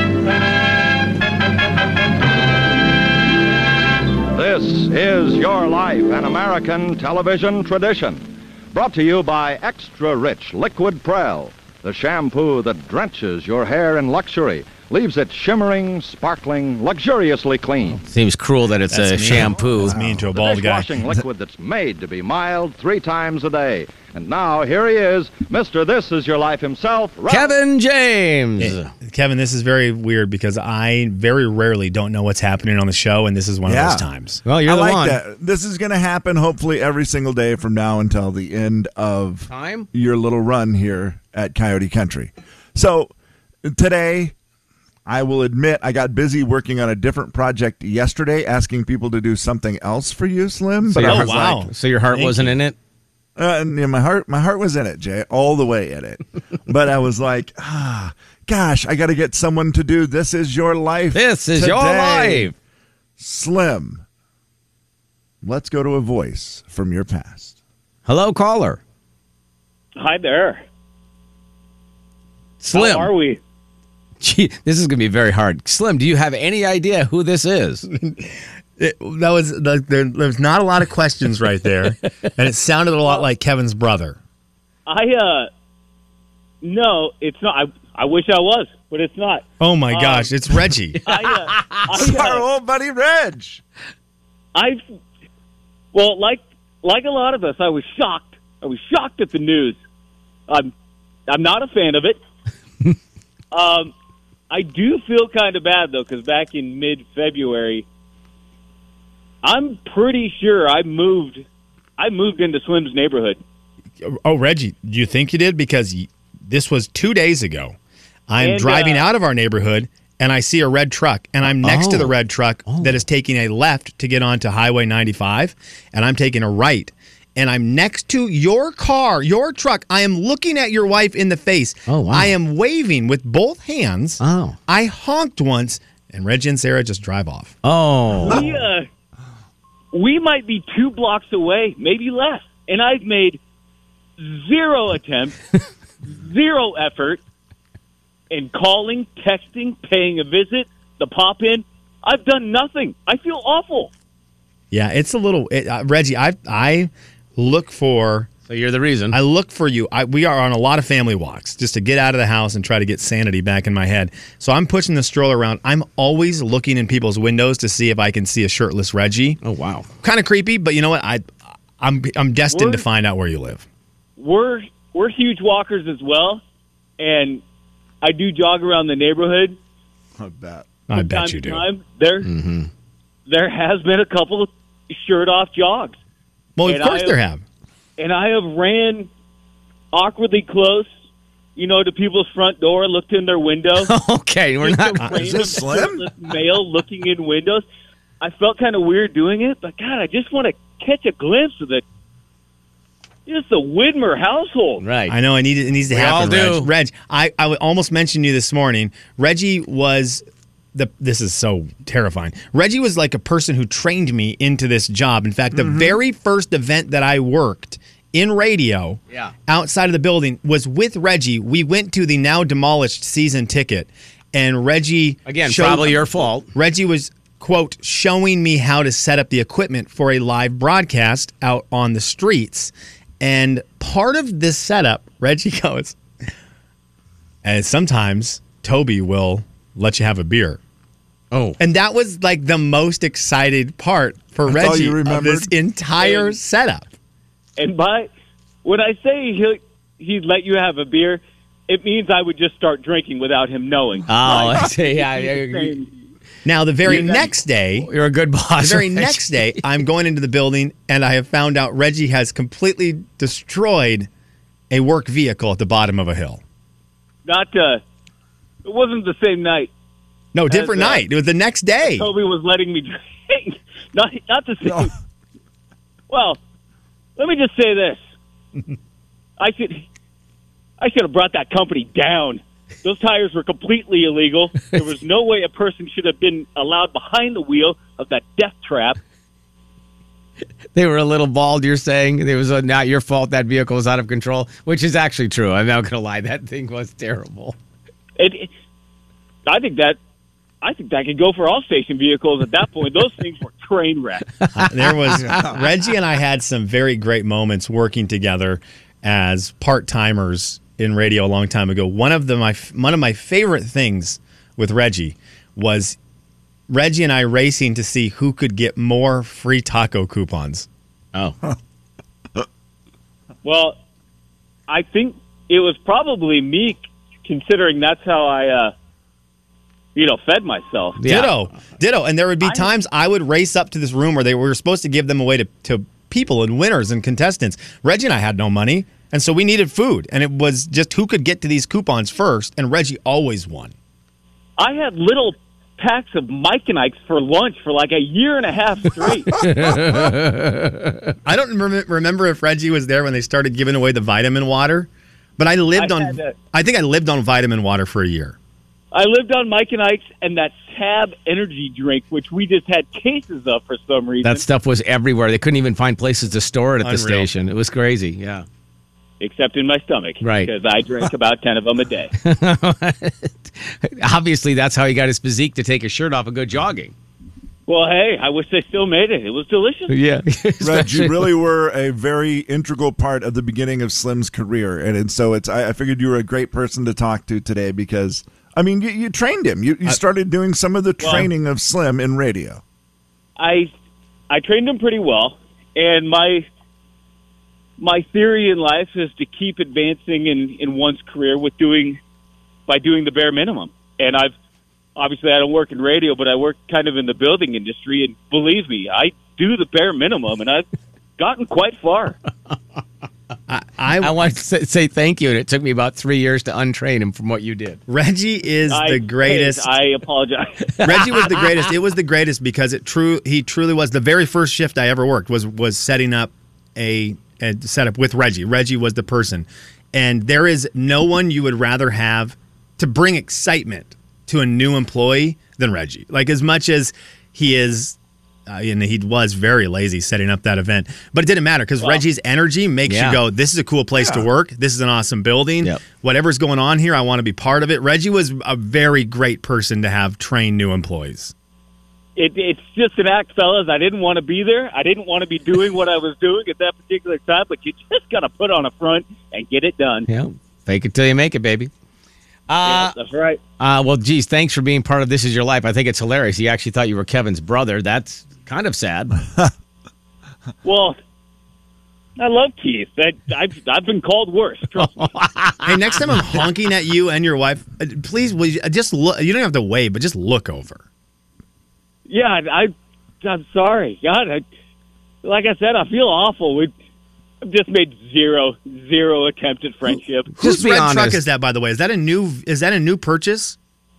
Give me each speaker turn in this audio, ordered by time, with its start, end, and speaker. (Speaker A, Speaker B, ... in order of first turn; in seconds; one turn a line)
Speaker A: 4.3-18.0
Speaker B: 18.0-19.9
Speaker C: 18.9-21.1
Speaker D: 19.8-20.3
Speaker A: 20.3-27.5
Speaker B: 27.3-28.9
Speaker C: 28.6-34.4
Speaker D: 33.6-34.1
Speaker B: 34.4-35.2
Speaker D: 34.6-44.3
Speaker B: 39.5-39.9
Speaker D: 45.0-51.6
Speaker B: 50.9-52.8
Speaker C: 51.0-52.6
Speaker D: 53.4-62.5
Speaker B: 61.1-62.5
Speaker D: 63.2-64.0
Speaker D: 65.4-67.6
Speaker B: 68.0-68.8
Speaker E: 70.0-70.6
Speaker B: 72.6-73.1
Speaker E: 72.7-73.4
Speaker B: 74.2-77.8
Speaker C: 77.9-84.2
Speaker E: 84.8-85.5
Speaker E: 86.6-90.3
Speaker C: 89.6-91.0
Speaker E: 91.0-92.4
Speaker B: 91.5-91.8
Speaker D: 91.9-93.6
Speaker E: 94.5-94.8
Speaker E: 95.9-99.8
Speaker E: 101.3-102.2
Speaker E: 103.5-103.9
Speaker E: 104.5-107.8
Speaker E: 109.4-111.4
Speaker E: 112.0-113.4
Speaker C: 114.0-117.8
Speaker C: 118.3-137.6
Speaker E: 118.4-119.1
Speaker B: 121.5-122.2
Speaker B: 122.7-123.0
Speaker B: 131.9-132.3
Speaker B: 134.2-134.6
Speaker B: 137.6-138.4
Speaker E: 138.3-138.9
Speaker E: 139.9-143.4
Speaker E: 144.2-145.4
Speaker E: 146.1-147.2
Speaker E: 148.3-153.9
Speaker C: 154.7-158.3
Speaker B: 158.5-159.2
Speaker C: 159.1-169.4
Speaker B: 169.4-169.9
Speaker C: 170.0-173.6
Speaker E: 172.5-172.8
Speaker E: 174.2-176.4
Speaker E: 177.0-177.4
Speaker E: 178.0-179.6
Speaker D: 180.2-180.7
Speaker C: 180.9-181.6
Speaker E: 180.9-182.3
Speaker B: 182.2-182.7
Speaker E: 183.2-186.0
Speaker C: 186.6-187.4
Speaker E: 186.6-187.2
Speaker E: 188.0-189.1
Speaker E: 189.9-190.9
Speaker E: 191.6-193.9
Speaker B: 193.8-195.2
Speaker E: 194.6-197.6
Speaker D: 195.2-196.1
Speaker E: 198.2-201.8
Speaker E: 203.2-204.8
Speaker B: 204.8-205.1
Speaker C: 205.1-236.0
Speaker B: 205.9-206.7
Speaker D: 215.5-216.0
Speaker B: 225.2-226.5
Speaker C: 237.4-240.6
Speaker B: 241.3-241.6
Speaker C: 241.6-246.9
Speaker D: 244.5-245.5
Speaker E: 246.0-246.3
Speaker E: 247.6-248.1
Speaker E: 248.6-255.9
Speaker B: 254.1-255.8
Speaker C: 256.4-257.9
Speaker B: 256.8-257.1
Speaker E: 256.9-257.2
Speaker B: 257.8-259.6
Speaker C: 258.6-264.1
Speaker C: 264.7-266.4
Speaker E: 267.2-267.8
Speaker E: 268.6-269.7
Speaker C: 270.3-272.1
Speaker E: 270.5-271.0
Speaker E: 271.8-274.9
Speaker E: 276.1-276.4
Speaker E: 277.2-278.0
Speaker E: 279.4-279.9
Speaker E: 280.8-289.0
Speaker B: 290.7-297.6
Speaker E: 298.2-298.5
Speaker E: 299.4-300.0
Speaker E: 300.6-304.3
Speaker C: 304.6-316.0
Speaker B: 304.6-305.3
Speaker D: 305.1-305.6
Speaker C: 316.7-320.7
Speaker E: 323.4-323.8
Speaker E: 324.7-328.7
Speaker E: 329.9-331.0
Speaker B: 331.0-331.3
Speaker C: 331.0-343.7
Speaker E: 332.4-332.7
Speaker E: 344.6-349.3
Speaker B: 349.3-351.1
Speaker D: 349.5-350.0
Speaker C: 351.2-358.4
Speaker E: 355.7-356.3
Speaker E: 358.9-364.4
Speaker B: 364.2-368.4
Speaker C: 366.8-367.3
Speaker E: 369.2-372.1
Speaker B: 370.2-370.5
Speaker B: 372.2-376.9
Speaker E: 377.7-379.9
Speaker B: 379.9-381.3
Speaker D: 380.6-392.6
Speaker E: 391.0-391.3
Speaker E: 393.4-393.7
Speaker E: 394.3-396.5
Speaker E: 397.8-402.0
Speaker E: 402.7-404.3
Speaker E: 404.9-410.6
Speaker E: 411.2-412.2
Speaker C: 413.5-414.3
Speaker B: 414.0-417.8
Speaker C: 417.9-419.7
Speaker E: 418.7-420.7
Speaker C: 420.8-437.9
Speaker B: 420.9-421.3
Speaker C: 438.5-451.3
Speaker B: 442.9-443.2
Speaker D: 443.9-444.3
Speaker E: 452.1-460.1
Speaker B: 460.1-461.7
Speaker B: 462.5-462.9
Speaker E: 462.6-463.4
Speaker B: 463.6-469.1
Speaker E: 470.6-471.0
Speaker E: 472.2-474.9
Speaker B: 474.8-476.4
Speaker C: 475.6-480.8
Speaker E: 482.1-484.4
Speaker E: 485.2-486.7
Speaker E: 487.4-490.3
Speaker B: 490.4-491.2
Speaker C: 490.4-493.6